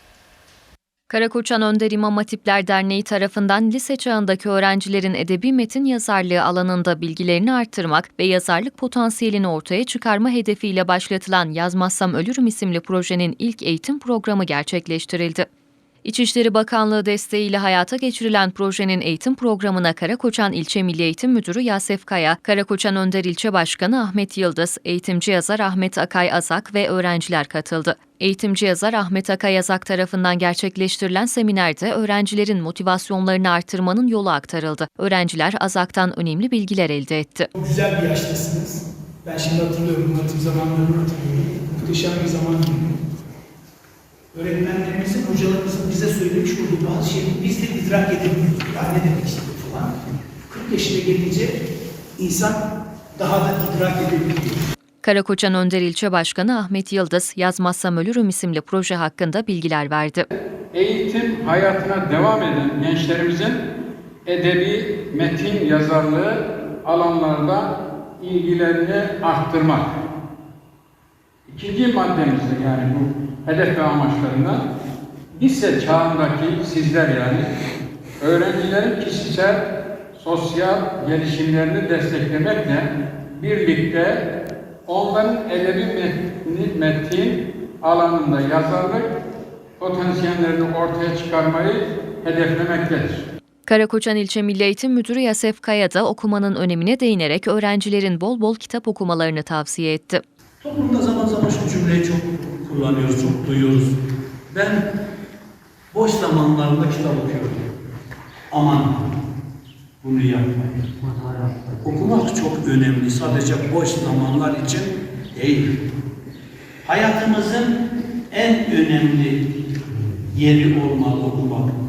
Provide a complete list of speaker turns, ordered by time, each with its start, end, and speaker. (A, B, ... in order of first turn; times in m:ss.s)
0:01.1-0:15.5 A
0:16.0-0:37.5 A
0:37.6-0:42.9 B
0:44.3-0:49.9 B
0:50.5-0:51.6 B
0:52.2-0:52.6 B
0:53.2-0:54.6 B
0:55.0-1:00.3 A
1:00.7-1:03.6 C
1:04.2-1:10.0 C
1:11.5-1:14.6 C
1:15.3-1:17.5 C
1:18.2-1:24.2 C
1:24.8-1:29.1 C
1:29.8-1:33.2 C
1:33.6-1:40.2 A
1:40.6-1:44.0 D
1:44.5-1:44.9 D
1:45.9-1:47.7 D
1:48.5-1:49.0 D
1:50.0-1:50.9 D
1:51.8-1:55.7 D
1:56.8-1:57.8 D
1:58.3-1:59.4 D
2:00.3-2:01.7 D